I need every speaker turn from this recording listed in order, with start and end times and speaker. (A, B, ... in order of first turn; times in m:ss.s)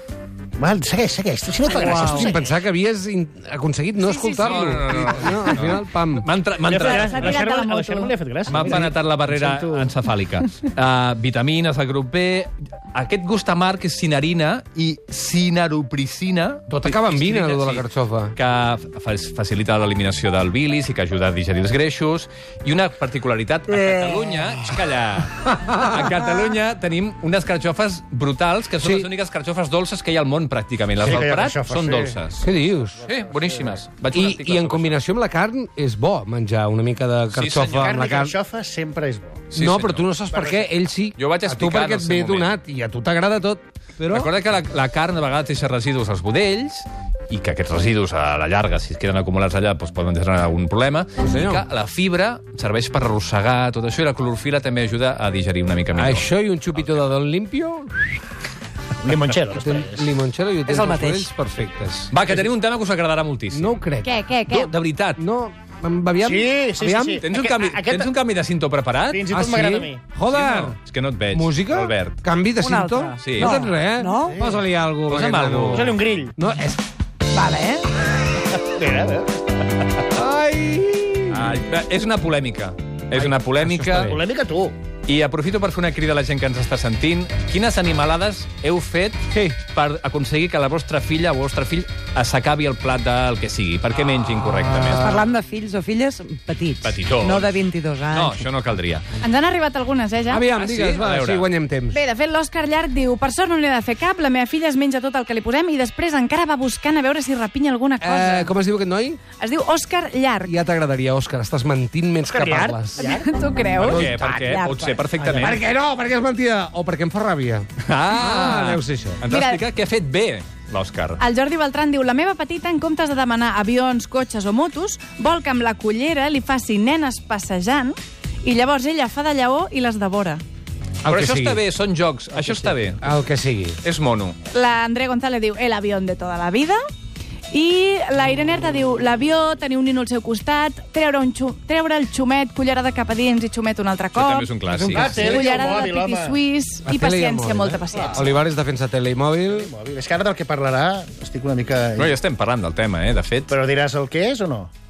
0:00.6-0:02.5 A
0:01.8-0:06.3 B
0:01.8-0:02.2 C
0:04.0-0:04.7 D
0:04.4-0:07.4 E
0:06.6-0:09.9 A
0:06.8-0:08.2 D
0:08.5-0:32.5 E
0:16.7-0:18.4 B
0:28.8-0:29.1 B
0:31.0-0:32.2 A
0:32.4-0:33.1 B
0:33.0-0:35.0 E
0:34.1-0:38.4 B
0:37.3-0:38.0 E
0:37.7-0:39.5 A
0:39.5-0:40.1 E
0:39.6-0:44.3 B
0:40.3-0:40.7 A
0:41.2-0:42.5 E
0:44.1-0:57.0 E
0:51.2-0:51.6 B
0:55.9-0:58.2 B
0:59.0-1:00.1 A
0:59.5-1:02.5 B
1:00.7-1:01.3 C
1:02.1-1:03.8 E
1:03.5-1:04.2 B
1:04.0-1:04.7 D
1:04.5-1:05.2 E
1:05.2-1:07.2 B
1:06.2-1:08.1 A
1:07.2-1:09.3 E
1:09.1-1:10.0 A
1:09.3-1:10.8 B
1:10.3-1:12.2 E
1:11.3-1:16.8 B
1:12.6-1:14.4 C
1:13.2-1:13.7 E
1:14.3-1:14.6 A
1:15.1-1:16.0 E
1:15.7-1:16.3 A
1:17.4-1:17.9 C
1:18.6-1:20.0 A
1:20.1-1:21.6 B
1:21.3-1:24.2 E
1:23.2-1:24.2 B
1:24.0-1:24.8 A
1:25.1-1:35.2 E
1:34.8-1:38.5 C
1:36.8-1:37.6 E
1:38.1-1:39.0 E
1:39.2-1:40.5 D
1:40.3-1:42.0 B
1:40.6-1:41.5 E
1:41.9-1:48.5 D
1:48.0-1:49.2 B
1:49.4-1:50.5 D
1:50.4-1:53.1 B
1:52.3-1:53.3 A
1:53.0-1:55.1 D
1:53.8-1:54.6 B
1:53.8-1:55.6 E
1:55.3-1:59.2 B
1:57.8-2:01.2 E
1:59.2-1:59.6 D
2:01.2-2:10.4 D
2:11.0-2:11.6 B
2:11.1-2:13.1 E
2:12.3-2:13.8 B
2:13.8-2:14.4 E
2:14.5-2:16.8 D
2:17.5-2:28.3 D
2:24.2-2:25.3 E
2:24.8-2:26.4 A
2:24.9-2:25.3 B
2:26.8-2:29.7 B
2:29.5-2:32.2 A
2:32.0-2:33.6 E
2:33.5-2:34.7 A